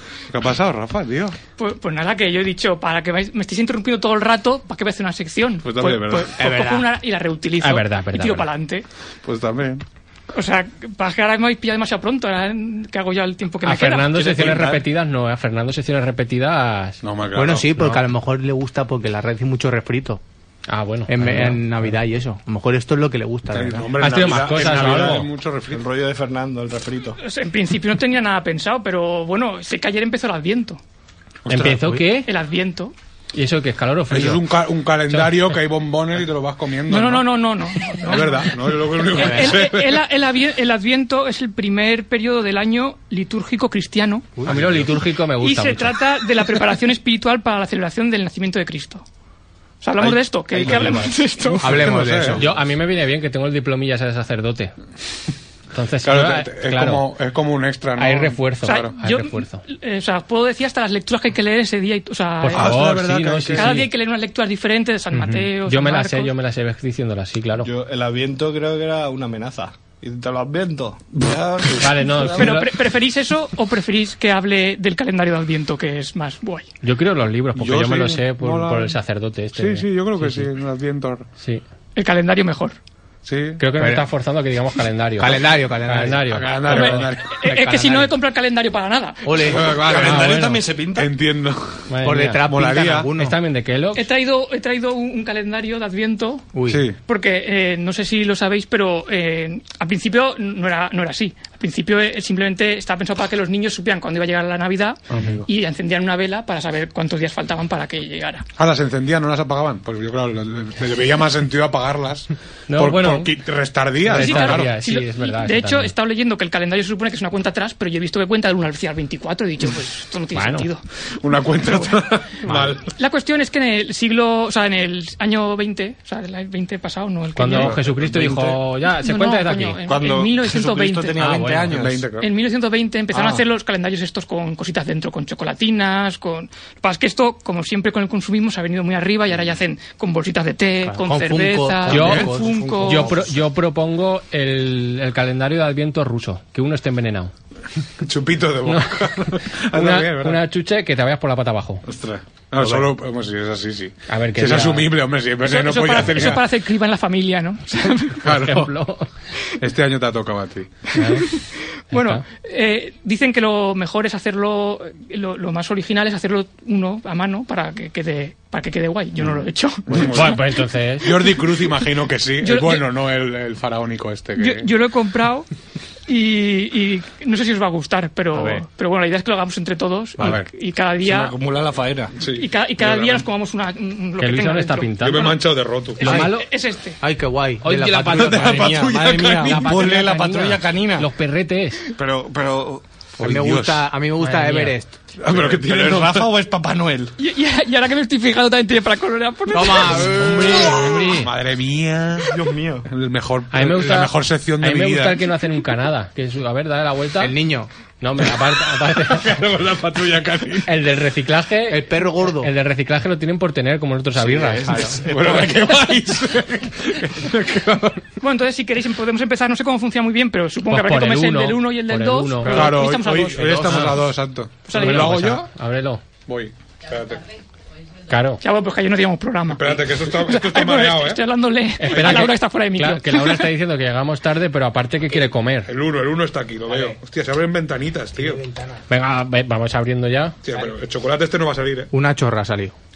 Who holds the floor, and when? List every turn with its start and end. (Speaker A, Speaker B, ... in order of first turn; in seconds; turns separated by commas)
Speaker A: 0.3-1.4, Speaker B: 1.6-8.9, Speaker A: 5.6-6.3, Speaker C: 6.4-6.9, Speaker D: 7.6-8.5, Speaker A: 9.2-9.8, Speaker B: 10.3-14.2, Speaker D: 13.6-17.0, Speaker E: 14.1-14.8, Speaker A: 17.0-18.0, Speaker C: 17.4-20.2, Speaker D: 20.7-21.9, Speaker C: 21.1-23.9, Speaker A: 23.5-25.9, Speaker D: 24.0-25.3, Speaker E: 25.7-27.2, Speaker B: 27.2-30.8, Speaker A: 31.4-31.8, Speaker D: 31.5-32.3, Speaker C: 31.8-32.0, Speaker B: 32.3-32.9, Speaker D: 33.3-34.5, Speaker A: 34.1-40.1, Speaker D: 35.1-35.4, Speaker B: 36.9-38.5, Speaker B: 39.1-44.3, Speaker C: 39.2-39.6, Speaker C: 44.4-44.9, Speaker D: 44.5-46.0, Speaker B: 45.4-49.0, Speaker B: 49.8-51.7, Speaker A: 50.0-51.0, Speaker E: 50.6-50.9, Speaker A: 51.6-52.5, Speaker C: 51.6-52.5, Speaker D: 52.3-54.7, Speaker D: 55.7-57.1, Speaker A: 56.0-58.9, Speaker D: 58.0-59.6, Speaker B: 58.6-62.8, Speaker D: 62.4-63.9, Speaker A: 62.6-63.8, Speaker B: 63.5-66.3, Speaker D: 65.1-67.7, Speaker E: 67.6-72.6, Speaker D: 71.8-72.7, Speaker B: 72.3-76.7, Speaker D: 76.8-80.5, Speaker A: 77.6-79.0, Speaker A: 79.6-81.3, Speaker B: 82.0-82.8, Speaker A: 83.3-83.6, Speaker D: 83.6-87.7, Speaker C: 83.8-84.0, Speaker C: 85.2-86.9, Speaker A: 86.3-87.4, Speaker B: 86.7-89.3, Speaker C: 87.5-88.1, Speaker C: 89.2-89.8, Speaker A: 89.5-90.3, Speaker E: 89.5-91.1, Speaker D: 90.0-90.6, Speaker A: 91.0-91.9, Speaker D: 91.9-92.4, Speaker C: 92.0-93.4, Speaker A: 92.5-93.1, Speaker D: 93.2-94.1, Speaker B: 94.0-96.5, Speaker C: 96.5-96.9, Speaker A: 96.7-97.0, Speaker B: 97.1-108.5, Speaker A: 105.1-105.4, Speaker A: 108.6-114.7, Speaker D: 112.7-113.3, Speaker D: 114.1-115.9, Speaker B: 114.1-120.8, Speaker D: 120.3-120.7, Speaker A: 121.2-122.9, Speaker B: 121.6-122.0, Speaker D: 122.5-122.7, Speaker B: 123.0-127.8, Speaker D: 127.3-129.8, Speaker E: 127.6-128.6, Speaker B: 128.9-131.2, Speaker E: 129.9-132.1, Speaker D: 131.2-131.8, Speaker A: 131.7-132.3, Speaker B: 132.2-143.1, Speaker E: 133.1-133.4, Speaker C: 140.9-143.3, Speaker D: 141.9-142.3, Speaker D: 142.8-147.3, Speaker A: 148.0-150.4, Speaker D: 148.7-151.8, Speaker A: 151.8-156.5, Speaker D: 152.6-152.9, Speaker D: 154.1-154.9, Speaker B: 155.4-158.2, Speaker D: 158.2-159.1, Speaker A: 158.2-158.7, Speaker A: 159.6-160.7, Speaker D: 160.9-161.3, Speaker B: 161.3-170.4, Speaker D: 161.9-162.2, Speaker A: 169.2-170.4, Speaker D: 169.9-171.1, Speaker A: 171.0-174.7, Speaker B: 172.4-172.8, Speaker B: 174.4-175.5, Speaker B: 176.1-181.3, Speaker C: 178.4-178.6, Speaker A: 180.2-180.5, Speaker E: 181.0-182.2, Speaker A: 182.2-183.2, Speaker B: 182.3-185.3, Speaker D: 184.2-185.3, Speaker A: 185.0-186.3, Speaker B: 186.0-187.0, Speaker D: 186.0-186.5, Speaker C: 186.1-186.4, Speaker C: 187.0-188.7, Speaker D: 187.6-191.8, Speaker A: 188.0-189.8, Speaker E: 188.1-191.1, Speaker E: 192.0-192.8, Speaker A: 193.2-193.9, Speaker C: 193.2-194.9, Speaker D: 194.2-194.8, Speaker A: 195.2-196.3, Speaker E: 195.3-197.1, Speaker B: 197.2-201.1, Speaker C: 199.5-201.2, Speaker A: 200.0-205.2, Speaker D: 200.2-201.3, Speaker E: 202.3-202.9, Speaker D: 203.5-207.3, Speaker C: 207.2-207.7, Speaker D: 208.0-209.4, Speaker A: 208.7-210.7, Speaker D: 210.7-215.0, Speaker C: 211.7-212.5, Speaker E: 214.2-215.6, Speaker A: 215.1-218.0, Speaker B: 218.2-223.9, Speaker D: 220.7-222.8, Speaker A: 222.4-225.5, Speaker D: 223.7-224.1, Speaker B: 224.7-225.2, Speaker D: 224.7-226.0, Speaker A: 226.3-227.2, Speaker D: 228.1-228.4, Speaker B: 228.4-233.5, Speaker A: 229.5-231.2, Speaker D: 231.8-235.7, Speaker A: 231.9-232.3, Speaker A: 235.7-238.4, Speaker C: 236.7-237.0, Speaker C: 238.2-238.8, Speaker D: 238.9-240.4, Speaker A: 240.4-241.9, Speaker C: 241.9-242.7